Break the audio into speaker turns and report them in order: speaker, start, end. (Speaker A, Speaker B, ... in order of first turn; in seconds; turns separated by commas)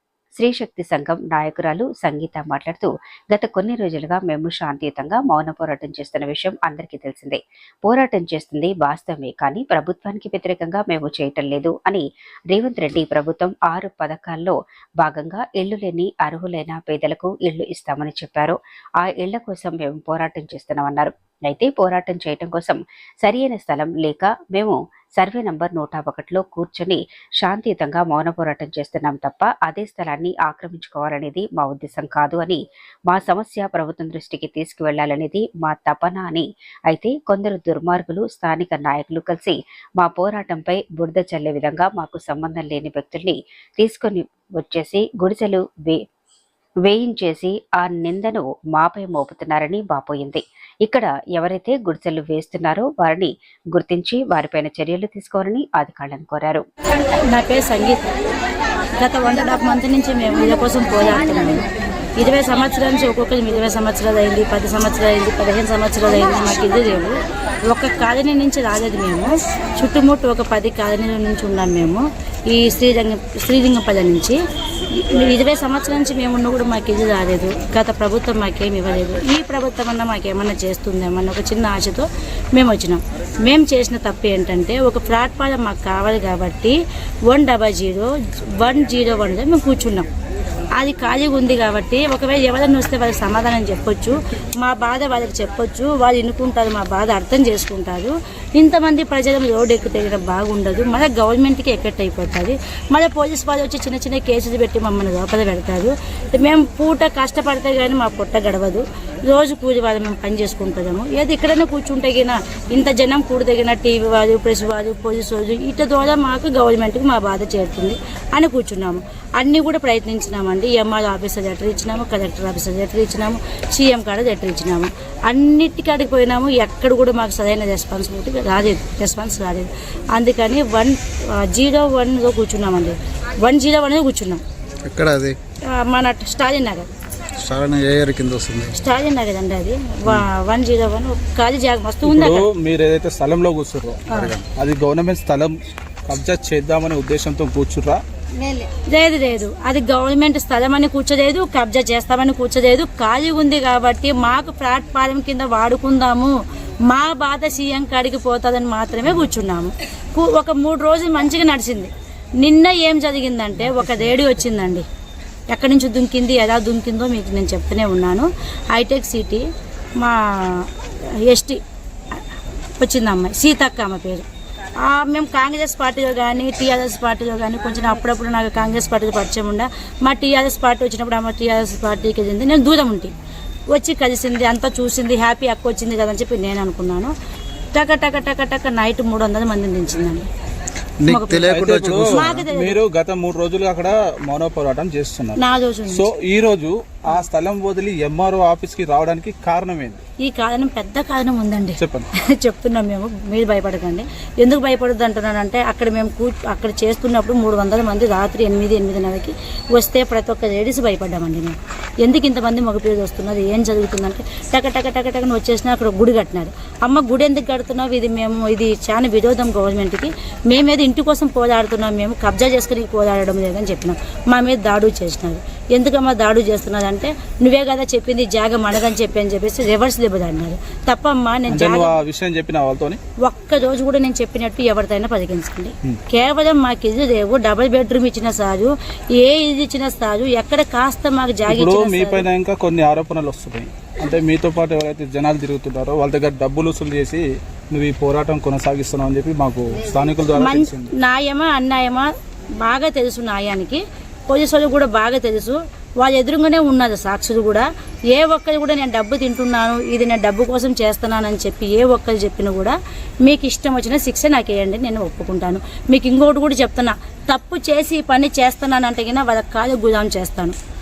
Speaker A: 0.4-46.0, Speaker A: 46.8-56.6, Speaker B: 57.3-58.1, Speaker B: 59.0-61.6, Speaker B: 62.2-90.1, Speaker B: 90.8-134.4, Speaker C: 134.8-135.4, Speaker B: 135.6-136.9, Speaker C: 137.4-138.7, Speaker B: 138.8-142.4, Speaker D: 142.0-145.5, Speaker D: 146.1-148.0, Speaker B: 148.9-156.3, Speaker B: 156.9-164.8, Speaker B: 165.5-169.4, Speaker B: 170.0-171.6, Speaker B: 172.8-174.2, Speaker B: 174.8-183.1, Speaker B: 183.7-187.1, Speaker B: 187.7-190.3, Speaker C: 191.0-192.4, Speaker B: 191.0-192.8, Speaker D: 191.5-200.0, Speaker B: 195.3-196.1, Speaker B: 200.2-231.9, Speaker D: 201.8-202.1, Speaker D: 231.5-233.0, Speaker B: 233.2-242.2, Speaker D: 241.5-250.9, Speaker B: 250.4-252.1, Speaker B: 252.6-270.6